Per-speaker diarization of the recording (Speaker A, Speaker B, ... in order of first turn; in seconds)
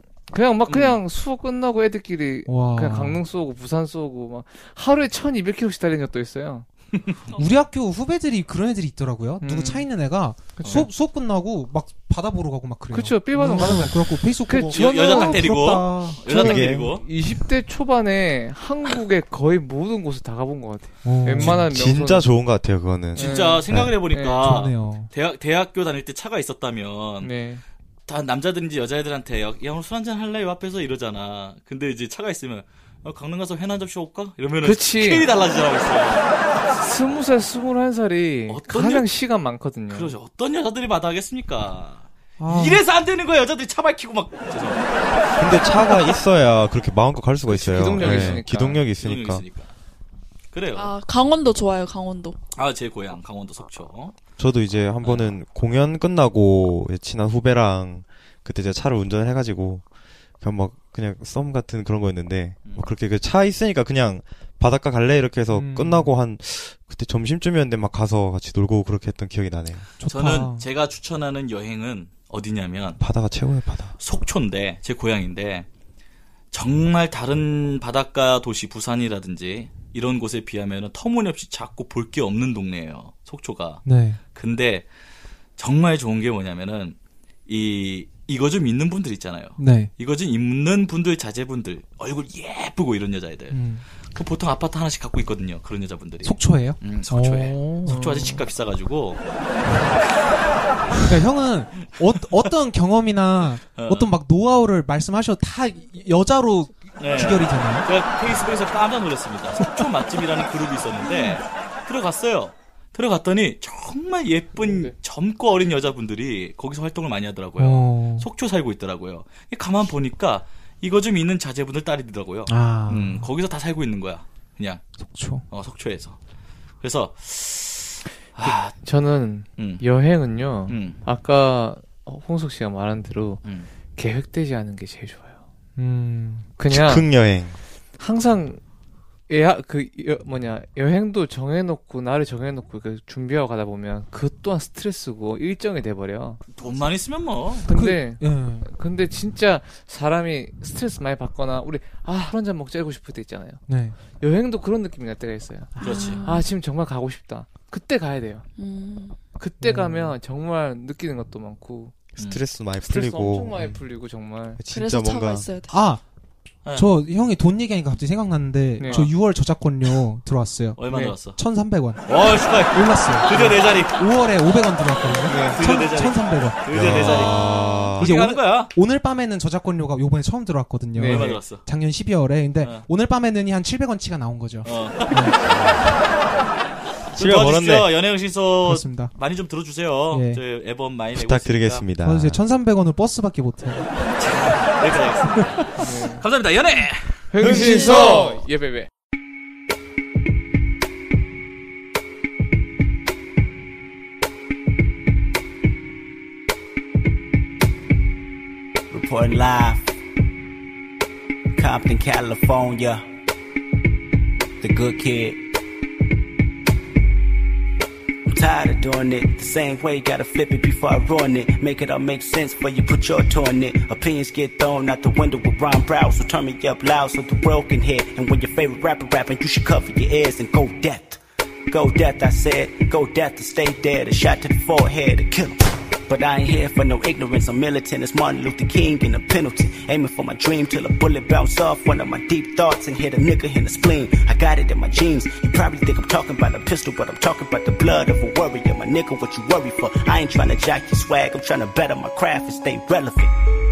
Speaker A: 0.3-6.7, 9.4-9.9, 10.6-10.9, 12.9-15.7, 16.3-22.3, 23.1-24.6, 27.2-27.6, 34.6-35.3, 36.7-40.1, 47.6-48.9, 97.9-98.4, 114.5-114.9, 128.4-133.4, 133.9-135.4, 136.6-137.1, 138.0-138.6, 139.3-146.4, 147.6-158.4, 159.3-161.9, 162.8-164.6, 168.8-169.1, 170.9-171.2, 180.9-181.3, 195.8-196.2, 197.3-198.9
Speaker B: 0.7-1.0, 6.9-7.4, 10.6-10.9, 13.5-13.9, 14.5-17.0, 23.1-27.3, 28.1-36.3, 38.5-39.1, 39.9-44.9, 47.5-48.5, 49.0-49.7, 50.5-51.0, 52.5-54.1, 55.0-55.3, 62.6-62.9, 70.1-73.0, 74.0-75.7, 76.5-84.8, 85.6-87.0, 87.5-99.2, 99.8-101.2, 102.0-102.5, 103.8-104.1, 107.0-124.8, 125.5-126.1, 126.8-128.7, 129.6-129.8, 130.7-131.0, 133.4-133.7, 146.5-147.7, 155.8-156.2, 162.2-162.4, 166.6-166.9, 170.8-171.4, 172.0-174.0, 175.3-178.7, 181.0-181.6, 182.6-182.8, 184.6-185.4, 187.1-191.8, 194.2-198.4
Speaker C: 2.5-3.2, 7.4-14.6, 15.1-16.2, 21.0-21.5, 24.4-25.1, 42.4-42.8, 65.5-66.1, 70.0-70.7, 83.8-84.2, 89.6-89.9, 93.5-93.8, 96.2-98.0, 99.6-100.0, 101.1-107.9, 117.6-118.3, 122.5-123.3, 125.0-125.5, 135.8-136.5, 147.7-148.7, 153.7-154.0, 159.6-160.1, 165.7-166.0, 166.7-170.8, 171.4-172.0, 172.7-177.1, 178.0-185.4, 188.6-189.1, 190.1-190.4, 192.0-193.9
Speaker D: 14.7-15.0, 208.9-209.9, 211.6-213.0, 214.6-215.4, 218.3-231.2, 231.7-253.3
Speaker E: 16.3-17.0, 21.4-23.9, 45.4-49.4, 54.4-59.8, 60.4-69.8, 73.0-74.0, 136.7-137.6, 162.2-163.8, 164.6-165.6, 175.3-175.6, 176.7-178.1, 185.4-185.8, 187.2-187.9, 191.1-192.4, 197.4-198.2
Speaker F: 50.7-52.4, 155.8-156.4, 158.6-159.2, 164.7-165.8